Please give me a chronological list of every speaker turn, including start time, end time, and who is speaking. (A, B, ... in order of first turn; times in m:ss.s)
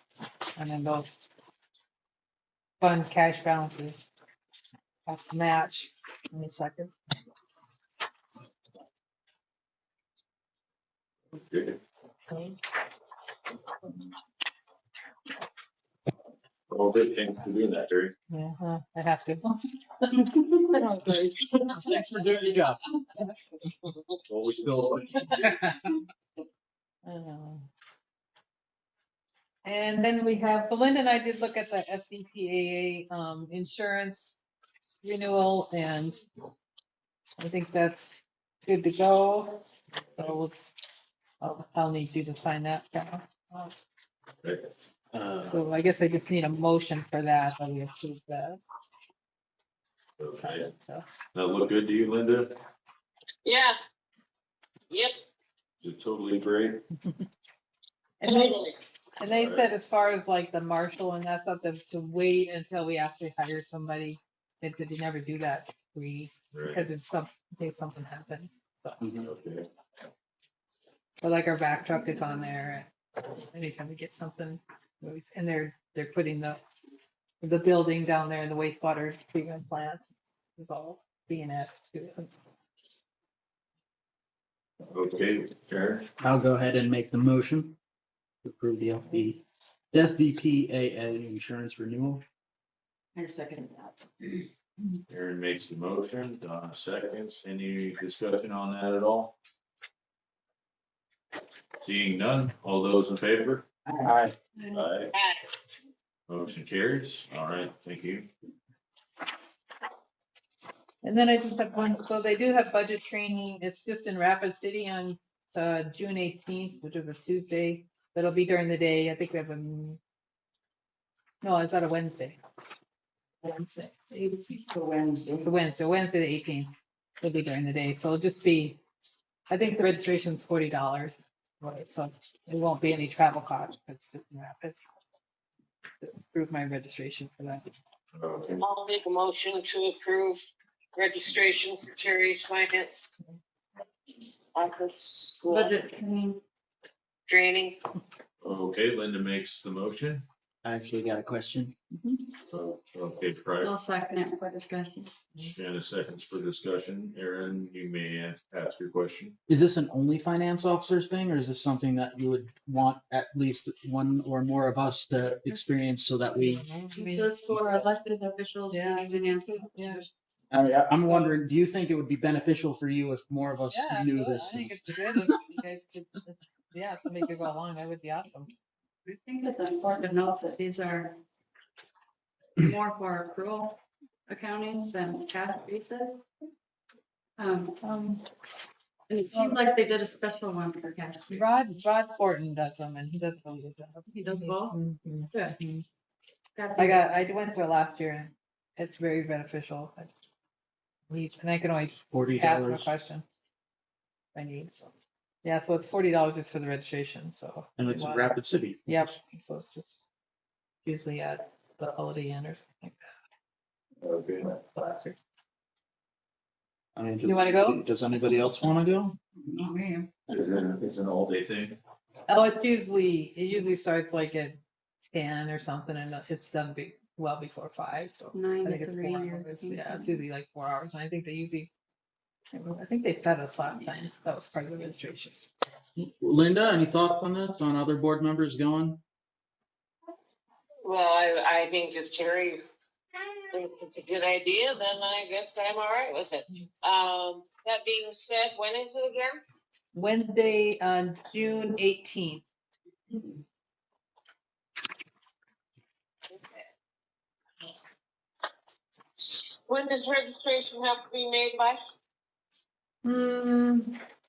0:00.6-0:01.3 A
0:02.8-0:04.1 A
0:05.1-0:06.9 A
0:11.5-0:11.8 B
0:16.7-0:18.1 B
0:18.3-0:22.0 A
0:21.7-0:22.8 C
0:24.3-0:25.3 B
0:25.4-0:25.9 C
0:27.0-0:27.7 A
0:29.6-0:34.4 A
0:35.0-0:36.2 A
0:37.4-0:39.6 A
0:40.2-0:40.7 A
0:41.4-0:43.7 A
0:44.4-0:44.7 B
0:45.1-0:45.6 C
0:45.4-0:48.6 A
0:50.2-0:50.7 B
0:50.4-0:51.0 A
0:51.3-0:52.6 B
0:53.4-0:53.8 D
0:54.9-0:55.2 D
0:55.8-0:56.8 B
0:58.2-0:58.6 A
0:58.2-0:58.8 D
0:59.2-1:09.0 A
0:59.2-0:59.6 B
1:06.5-1:06.8 B
1:09.2-1:09.7 B
1:11.2-1:16.6 A
1:17.4-1:22.3 A
1:24.9-1:26.1 B
1:26.2-1:27.8 C
1:28.4-1:32.2 C
1:33.2-1:33.9 E
1:35.1-1:39.3 B
1:41.8-1:43.7 B
1:43.8-1:44.3 C
1:44.6-1:44.9 E
1:44.7-1:45.1 B
1:45.1-1:45.4 D
1:46.3-1:48.3 B
1:51.0-2:00.0 A
2:01.4-2:02.4 A
2:03.4-2:04.0 A
2:04.1-2:05.5 E
2:05.4-2:08.8 A
2:09.5-2:14.8 A
2:16.0-2:17.6 A
2:18.2-2:18.6 B
2:18.6-2:20.4 D
2:21.0-2:23.2 D
2:24.6-2:25.8 D
2:25.5-2:26.4 E
2:27.3-2:27.8 D
2:28.4-2:30.2 B
2:30.6-2:31.8 C
2:32.5-2:33.7 B
2:33.6-2:35.1 E
2:35.4-2:39.3 B
2:39.5-2:46.7 C
2:46.4-2:47.3 A
2:46.9-2:50.1 E
2:48.7-2:50.0 A
2:50.5-2:55.3 C
2:51.1-2:51.3 A
2:53.7-2:58.5 A
2:59.1-3:01.2 E
3:02.6-3:06.2 E
3:07.4-3:07.8 E
3:07.8-3:08.2 A
3:09.1-3:11.5 E
3:09.3-3:09.6 A
3:11.3-3:15.8 A
3:14.2-3:14.8 E
3:16.6-3:17.1 E
3:16.8-3:20.1 A
3:21.1-3:23.2 A
3:22.1-3:22.9 C
3:24.3-3:24.9 A
3:25.4-3:30.0 A
3:27.8-3:28.8 C
3:30.8-3:33.2 A
3:34.0-3:34.5 B
3:34.6-3:35.2 A
3:37.0-3:39.2 C
3:37.2-3:37.8 A
3:39.4-3:40.1 E
3:40.3-3:41.8 B
3:42.3-3:51.7 A
3:48.3-3:50.2 E
3:52.5-3:55.5 A
3:56.0-3:59.0 C
4:00.8-4:02.6 D
4:03.5-4:09.4 D
4:09.9-4:12.5 A
4:16.3-4:16.7 D
4:19.2-4:21.8 D
4:23.0-4:24.0 A